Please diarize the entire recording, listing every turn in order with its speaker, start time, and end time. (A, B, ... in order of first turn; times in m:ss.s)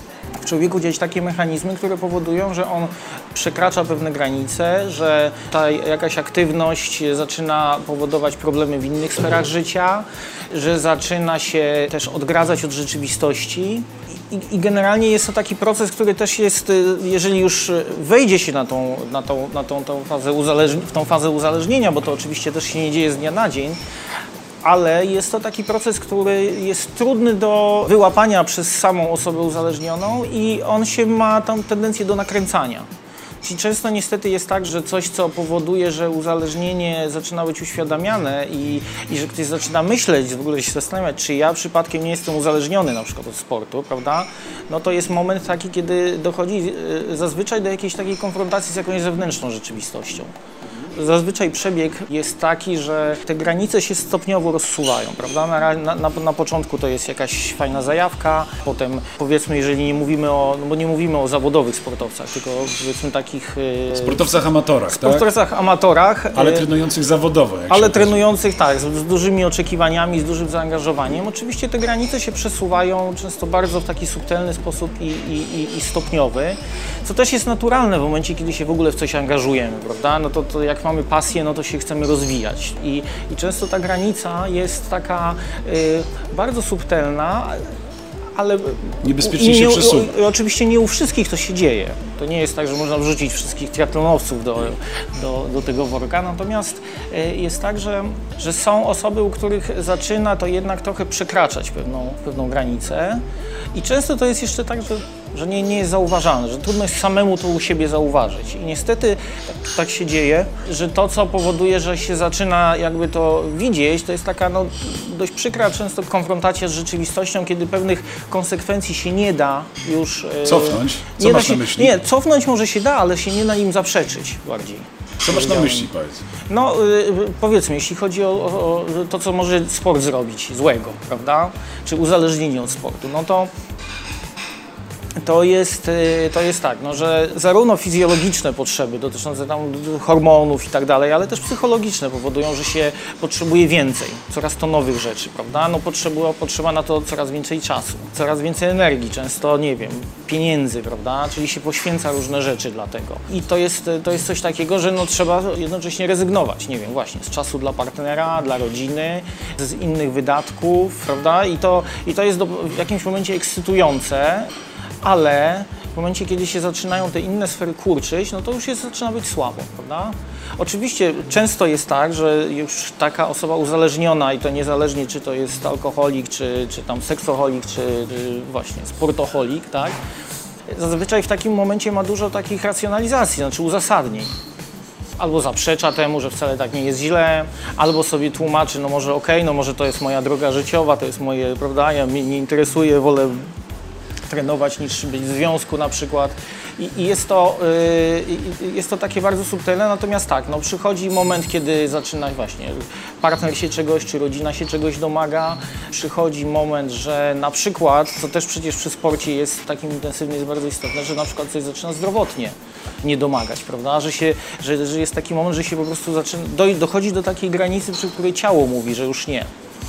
0:00.4-0:23.8 A
0:24.6-0:32.9 A
0:33.4-0:50.3 A
0:50.9-1:04.3 A
1:03.9-1:05.2 B
1:04.9-1:06.7 A
1:06.3-1:08.2 B
1:07.7-1:27.7 A
1:28.3-1:43.2 A
1:29.0-1:30.1 B
1:43.7-2:05.9 A
2:00.4-2:02.0 B
2:05.2-2:06.2 B
2:06.5-2:13.5 A
2:15.2-2:44.5 A
2:45.0-3:00.0 A
3:00.7-3:04.3 A
3:05.2-3:13.5 A
3:14.3-3:39.5 A